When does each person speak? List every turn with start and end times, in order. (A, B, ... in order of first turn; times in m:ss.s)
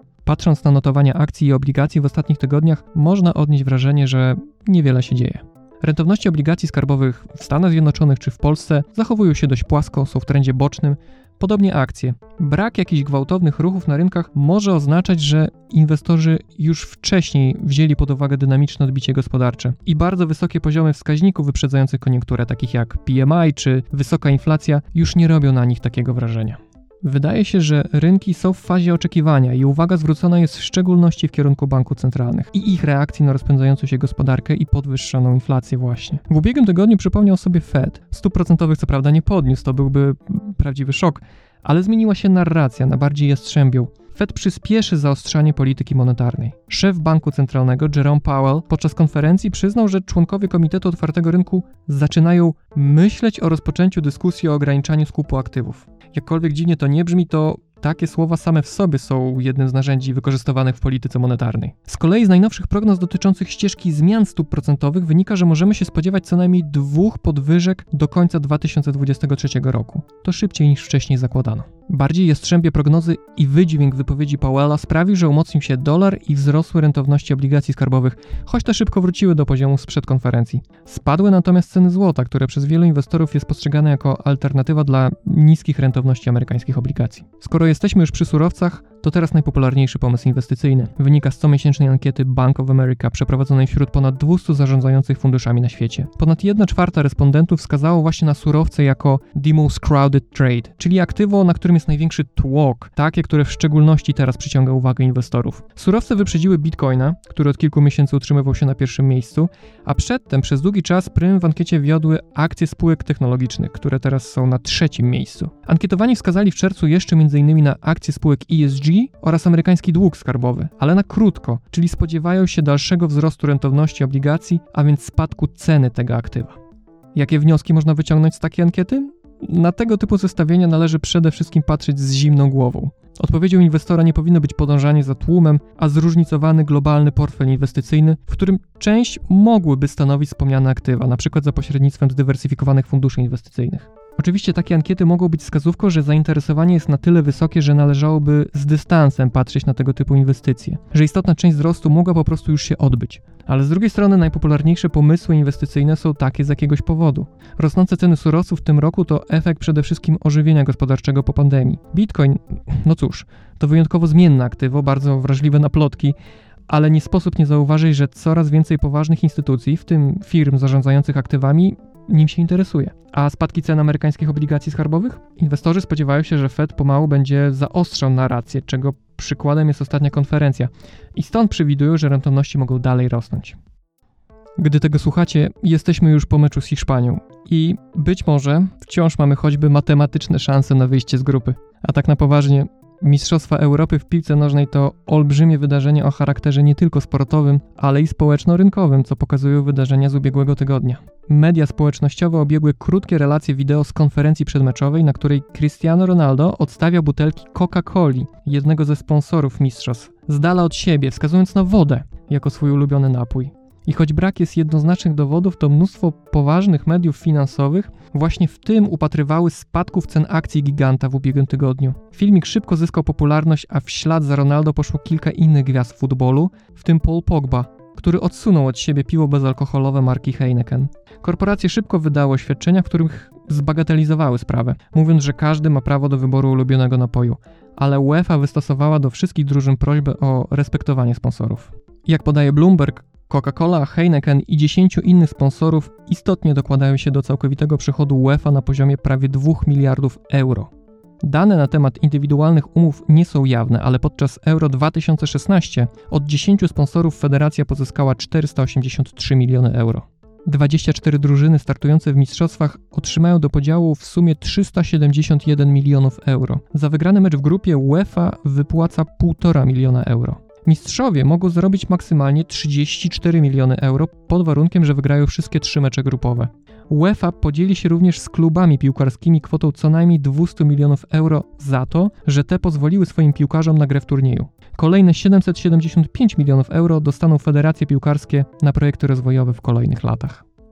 0:00.2-2:06.6 A
2:07.1-2:46.2 A
2:46.7-3:03.6 A
3:04.6-4:10.7 A
4:11.2-4:50.5 A